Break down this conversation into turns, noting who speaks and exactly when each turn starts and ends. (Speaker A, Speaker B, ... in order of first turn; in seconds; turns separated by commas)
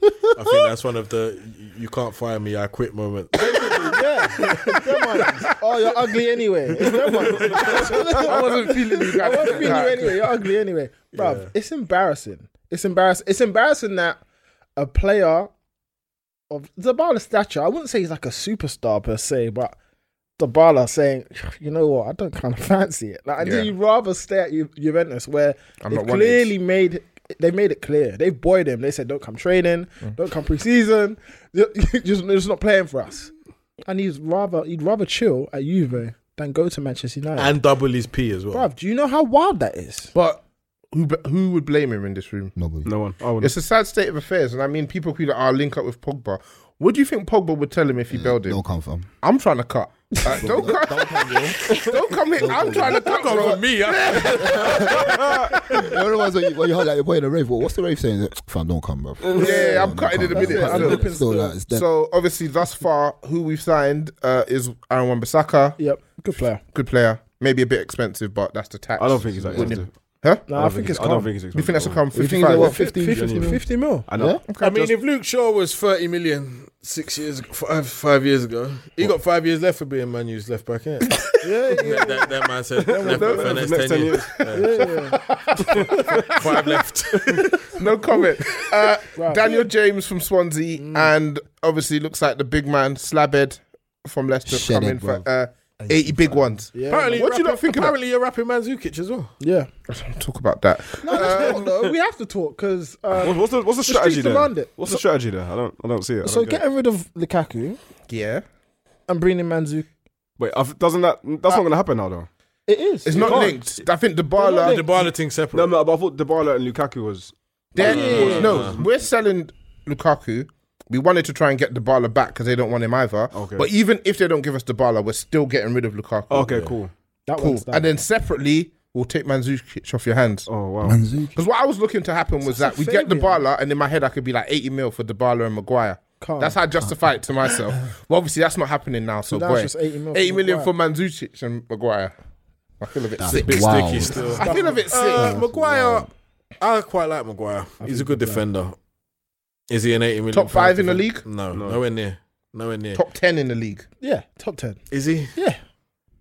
Speaker A: 0.3-4.5, Speaker B: 3.5-3.9, Speaker C: 3.6-14.2, Speaker A: 7.0-8.2, Speaker B: 7.6-10.2, Speaker A: 11.1-11.5, Speaker C: 14.8-15.5, Speaker C: 16.5-19.8, Speaker C: 20.4-33.3, Speaker B: 23.4-23.7, Speaker B: 25.8-26.5, Speaker C: 33.9-37.5, Speaker A: 37.4-38.7, Speaker C: 38.5-40.1, Speaker B: 40.1-42.5, Speaker D: 42.6-42.9, Speaker E: 42.8-43.5, Speaker B: 43.4-48.6, Speaker D: 48.1-49.1, Speaker B: 49.2-55.9, Speaker D: 50.3-51.3, Speaker A: 50.7-51.8, Speaker D: 52.4-61.9, Speaker A: 52.6-55.6, Speaker E: 55.2-55.5, Speaker B: 59.3-61.1, Speaker C: 59.4-61.5, Speaker B: 61.7-65.8, Speaker C: 65.8-66.6, Speaker B: 66.6-70.5, Speaker E: 69.0-69.9, Speaker D: 69.5-69.8, Speaker C: 70.5-71.3, Speaker E: 70.5-74.9, Speaker B: 71.5-73.1, Speaker C: 72.2-74.1, Speaker D: 72.4-73.2, Speaker B: 74.5-74.8, Speaker A: 74.6-85.0, Speaker C: 81.4-82.3, Speaker C: 82.9-83.8, Speaker E: 82.9-85.0, Speaker C: 84.5-86.0, Speaker A: 85.7-87.7, Speaker E: 85.7-86.2, Speaker B: 87.8-98.0, Speaker C: 89.2-89.7, Speaker C: 90.8-91.1, Speaker D: 94.5-95.3, Speaker D: 95.8-96.6, Speaker C: 96.7-97.1, Speaker A: 96.9-99.3, Speaker C: 99.4-99.7, Speaker B: 99.9-101.7, Speaker D: 101.0-101.6, Speaker C: 101.1-105.0, Speaker E: 103.2-106.6, Speaker C: 106.2-107.8, Speaker B: 108.1-108.4, Speaker C: 109.1-109.9, Speaker E: 110.4-112.3, Speaker C: 112.7-113.6, Speaker B: 113.0-114.8, Speaker E: 113.2-113.7, Speaker C: 114.4-115.1, Speaker A: 114.6-115.7, Speaker E: 115.5-118.8, Speaker B: 117.8-126.6, Speaker C: 117.8-118.5, Speaker A: 117.8-118.8, Speaker E: 123.3-123.7, Speaker E: 126.3-126.9, Speaker A: 126.3-126.8, Speaker C: 127.3-127.9, Speaker B: 127.4-130.5, Speaker E: 130.5-131.0, Speaker D: 130.8-131.4, Speaker B: 131.3-142.2, Speaker C: 132.4-133.4, Speaker C: 136.2-136.6, Speaker D: 136.8-137.6, Speaker C: 139.3-140.7, Speaker B: 142.8-145.4, Speaker D: 143.2-144.4, Speaker A: 143.3-148.8, Speaker C: 144.2-144.9, Speaker D: 145.1-146.1, Speaker C: 147.8-148.4, Speaker A: 149.7-153.0, Speaker B: 150.3-151.3, Speaker E: 151.5-151.8, Speaker B: 152.9-153.9, Speaker C: 154.0-154.8, Speaker A: 154.9-155.3